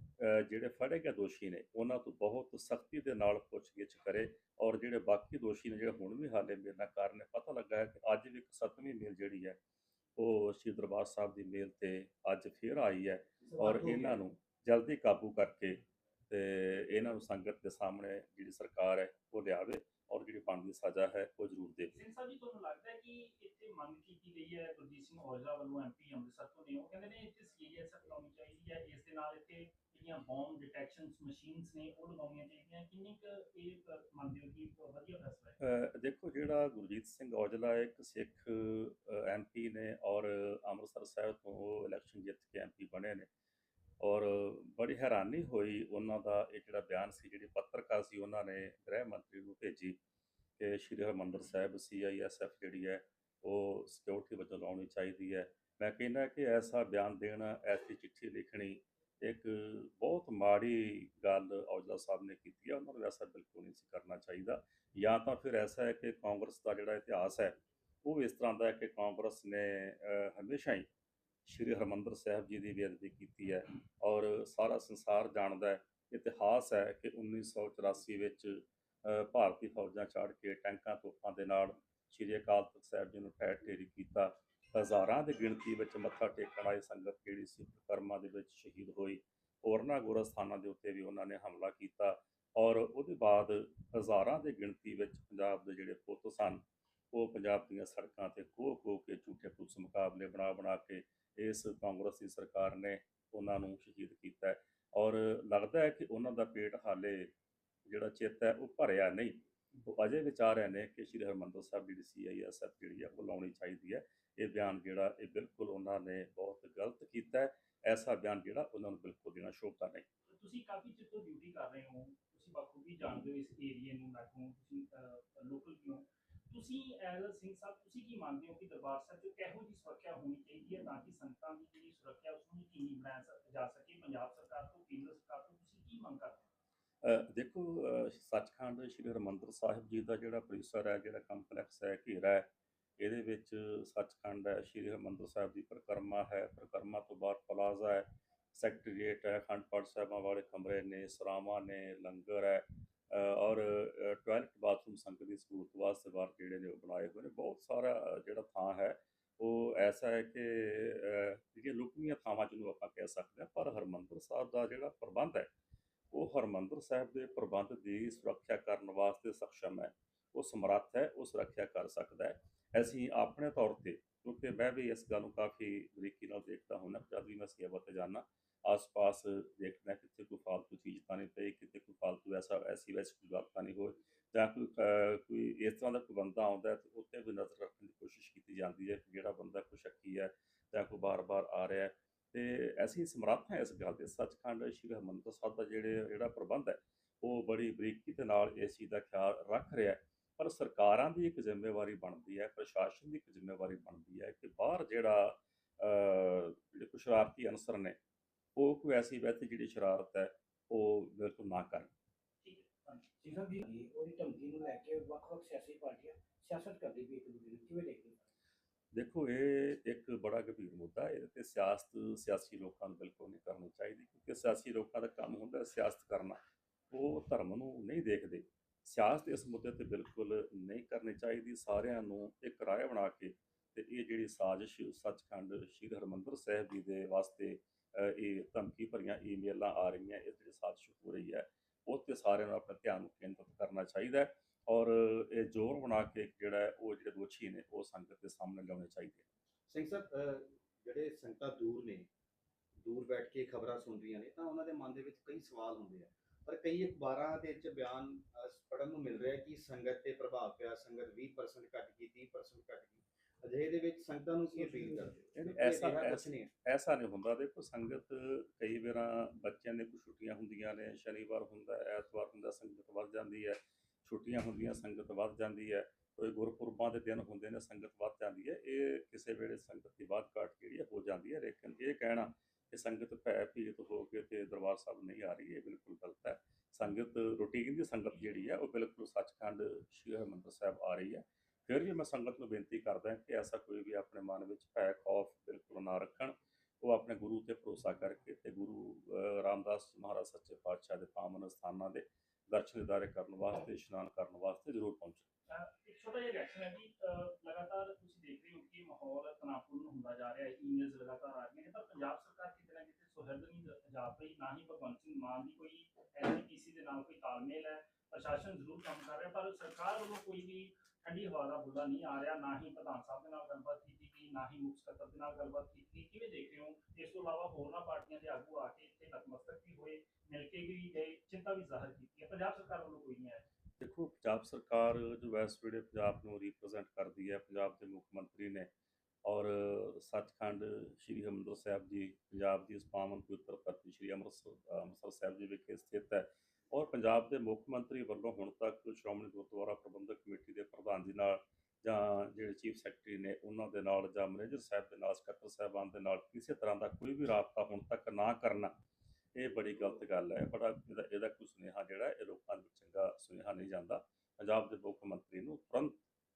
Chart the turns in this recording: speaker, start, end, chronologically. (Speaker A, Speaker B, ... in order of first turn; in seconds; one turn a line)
Speaker A: 0.2-9.6
Speaker A: 10.2-21.9
Speaker B: 13.4-13.8
Speaker C: 21.9-35.6
Speaker A: 35.6-43.3
Speaker A: 44.0-50.0
Speaker A: 50.6-70.9
Speaker A: 71.5-107.3
Speaker A: 107.8-120.0
Speaker C: 120.3-136.4
Speaker A: 137.0-165.5
Speaker A: 166.1-208.0
Speaker A: 208.6-211.9
Speaker C: 212.4-213.1
Speaker D: 213.2-218.3
Speaker A: 218.9-226.4
Speaker A: 226.9-249.2
Speaker B: 249.7-252.1
Speaker B: 252.8-266.5
Speaker D: 264.4-265.4
Speaker A: 265.3-305.3
Speaker C: 305.5-333.4
Speaker A: 333.8-338.7
Speaker A: 339.2-358.7
Speaker A: 359.3-366.0